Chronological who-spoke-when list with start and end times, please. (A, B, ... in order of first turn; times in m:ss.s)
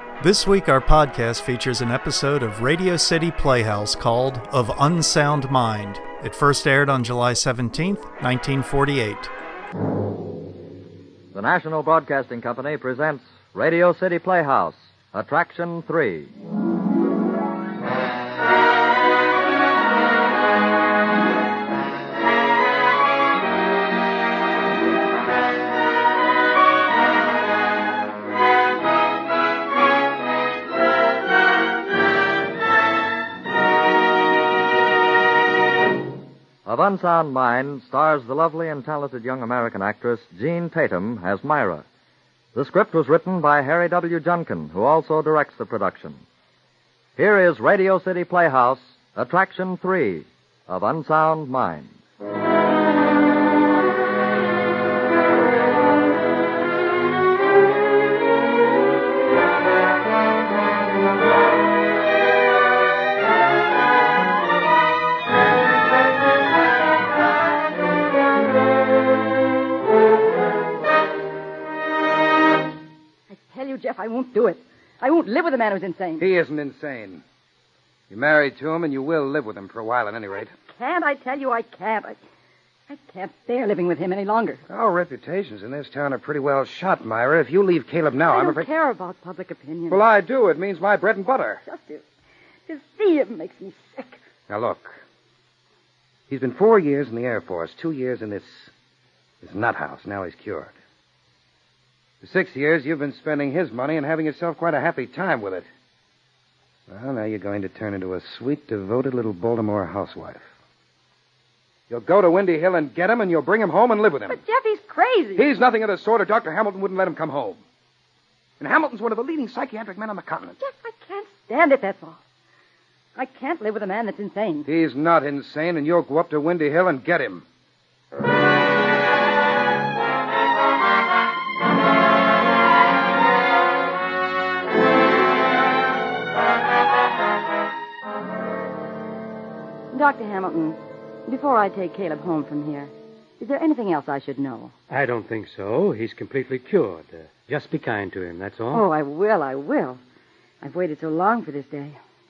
0:00.2-0:09.3 A
0:11.3-0:16.3 B
0:36.6-0:41.8 B
0:42.5-0:46.2 B
0:47.2-0:52.0 B
1:13.3-1:16.2 C
1:16.2-1:17.2 D
1:18.1-1:20.5 D
1:20.6-1:22.2 C
1:22.9-1:24.6 C
1:24.7-1:28.7 D
1:28.3-1:30.0 C
1:29.9-1:31.6 D
1:31.6-1:32.0 C
1:32.7-1:34.2 C
1:34.5-1:35.0 D
1:36.3-1:38.7 D
1:39.4-1:40.8 D
1:42.2-1:45.7 D
1:46.9-1:50.5 D
1:51.9-1:54.4 D
1:54.3-1:55.5 C
1:55.4-1:57.6 D
1:58.6-2:00.6 D
2:00.6-2:02.2 C
2:03.2-2:04.7 C
2:04.7-2:07.4 D
2:19.9-2:24.7 C
2:24.9-2:28.9 E
2:28.7-2:30.0 C
2:30.6-2:32.0 C